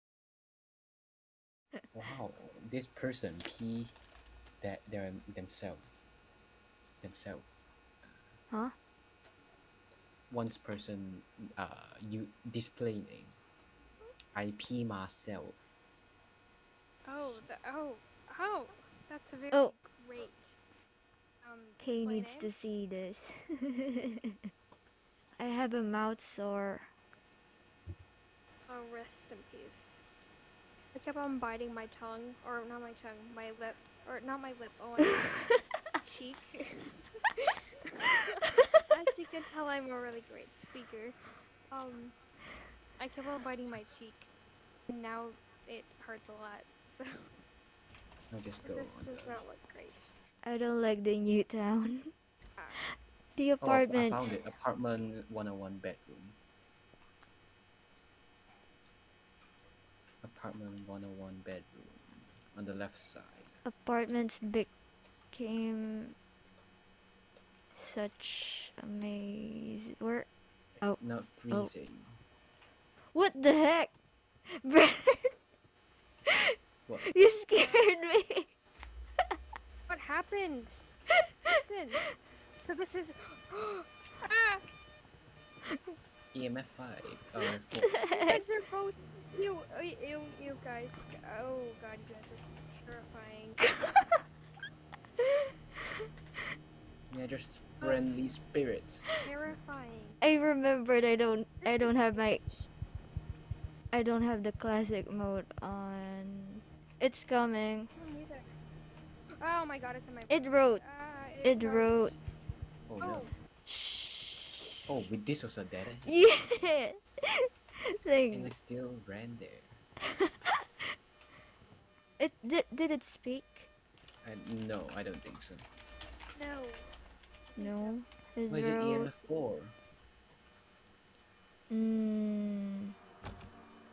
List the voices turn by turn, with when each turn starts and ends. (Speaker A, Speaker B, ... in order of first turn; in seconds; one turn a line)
Speaker A: 1.9-4.0
Speaker A: 4.6-6.1
Speaker A: 7.0-7.5
Speaker A: 10.3-13.4
Speaker A: 14.3-15.8
Speaker B: 17.0-20.6
Speaker B: 21.4-22.5
Speaker C: 21.8-24.3
Speaker C: 25.4-26.8
Speaker B: 28.7-30.0
Speaker B: 30.9-35.3
Speaker C: 35.2-35.6
Speaker B: 36.0-37.5
Speaker C: 38.4-38.8
Speaker B: 38.9-41.2
Speaker B: 41.7-42.1
Speaker B: 43.0-44.3
Speaker B: 44.9-47.1
Speaker A: 48.3-49.4
Speaker B: 48.6-50.1
Speaker C: 50.4-52.1
Speaker B: 52.6-52.8
Speaker C: 52.8-54.4
Speaker A: 53.6-56.4
Speaker A: 60.2-63.6
Speaker C: 63.6-64.7
Speaker C: 65.3-66.1
Speaker C: 67.8-70.3
Speaker C: 70.8-71.7
Speaker A: 70.8-72.2
Speaker C: 73.1-73.9
Speaker C: 74.6-75.3
Speaker C: 76.3-78.5
Speaker B: 77.5-77.9
Speaker B: 79.9-80.8
Speaker C: 81.5-82.1
Speaker B: 81.5-82.0
Speaker B: 82.6-84.6
Speaker A: 86.3-88.0
Speaker C: 87.8-88.4
Speaker B: 88.2-93.6
Speaker C: 93.6-94.2
Speaker A: 97.1-99.2
Speaker B: 99.2-100.2
Speaker C: 100.2-102.4
Speaker B: 101.6-102.7
Speaker C: 103.9-107.9
Speaker B: 107.9-108.5
Speaker B: 109.4-112.2
Speaker C: 110.3-110.8
Speaker C: 111.4-112.1
Speaker A: 112.9-113.3
Speaker B: 113.0-113.3
Speaker C: 113.7-114.8
Speaker A: 114.9-116.2
Speaker C: 116.1-118.5
Speaker A: 118.3-119.8
Speaker C: 122.2-123.7
Speaker A: 124.2-125.7
Speaker B: 126.3-126.9
Speaker B: 127.5-127.9
Speaker C: 127.5-129.1
Speaker A: 128.5-129.8
Speaker C: 131.7-132.9